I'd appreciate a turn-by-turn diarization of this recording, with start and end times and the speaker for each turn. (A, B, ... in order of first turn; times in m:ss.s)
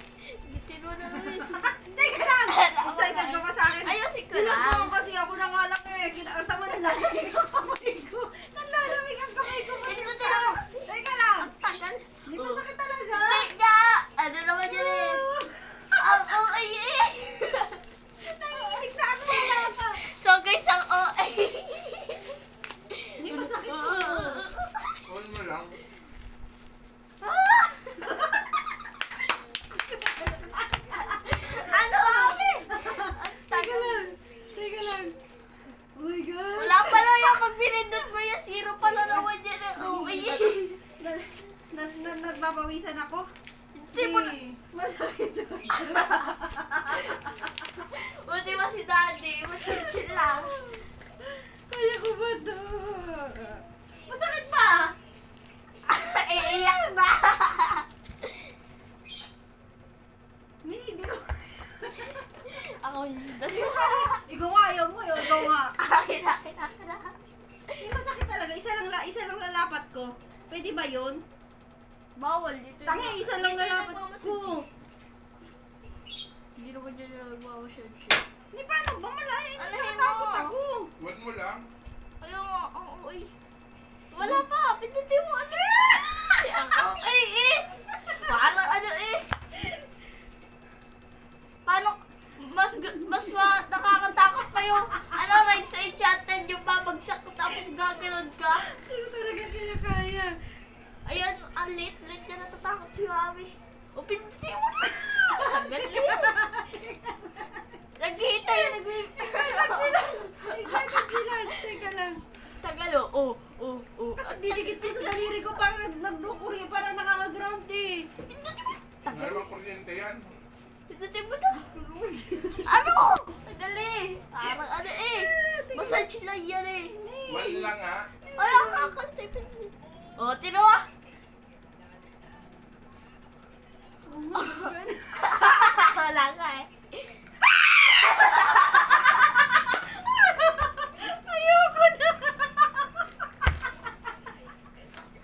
0:00.4-0:05.0 A
0:01.2-0:11.5 B
0:09.4-0:15.2 A
0:12.3-0:13.5 B
0:14.7-0:16.2 B
0:16.0-0:17.8 A
0:18.2-0:20.0 B
0:18.6-0:22.4 A
0:22.9-0:25.1 A
0:23.2-0:24.4 B
0:25.1-0:25.8 C
0:27.2-0:28.5 A
0:29.7-0:35.2 B
0:31.2-0:34.1 A
0:35.9-0:37.2 B
0:36.6-0:40.8 A
0:38.8-0:43.3 B
0:43.7-0:44.3 A
0:43.9-0:47.5 B
0:45.9-0:46.2 A
0:46.8-0:47.2 A
0:47.9-0:50.5 A
0:49.7-0:54.9 B
0:55.9-0:57.8 A
1:00.6-1:02.4 B
1:02.4-1:04.2 A
1:03.5-1:05.8 B
1:05.2-1:07.2 A
1:07.8-1:11.2 B
1:12.2-1:14.6 A
1:12.8-1:14.7 B
1:16.6-1:18.2 A
1:18.5-1:20.9 B
1:19.6-1:20.5 A
1:21.0-1:21.7 C
1:22.2-1:23.3 A
1:24.1-1:29.2 A
1:24.2-1:24.5 B
1:31.6-1:38.6 A
1:38.6-1:40.4 B
1:41.0-1:46.6 A
1:45.4-1:47.7 B
1:48.0-1:51.8 A
1:48.5-1:52.2 B
1:52.6-1:55.5 A
1:54.2-1:58.1 B
1:58.3-1:59.5 A
1:59.1-2:00.3 C
2:00.9-2:01.6 A
2:01.5-2:02.7 B
2:02.6-2:06.9 A
2:04.4-2:06.0 B
2:06.9-2:08.9 B
2:07.3-2:08.1 C
2:08.4-2:10.9 A
2:14.0-2:15.8 B
2:14.4-2:17.1 A
2:17.9-2:18.9 A
2:18.8-2:22.9 B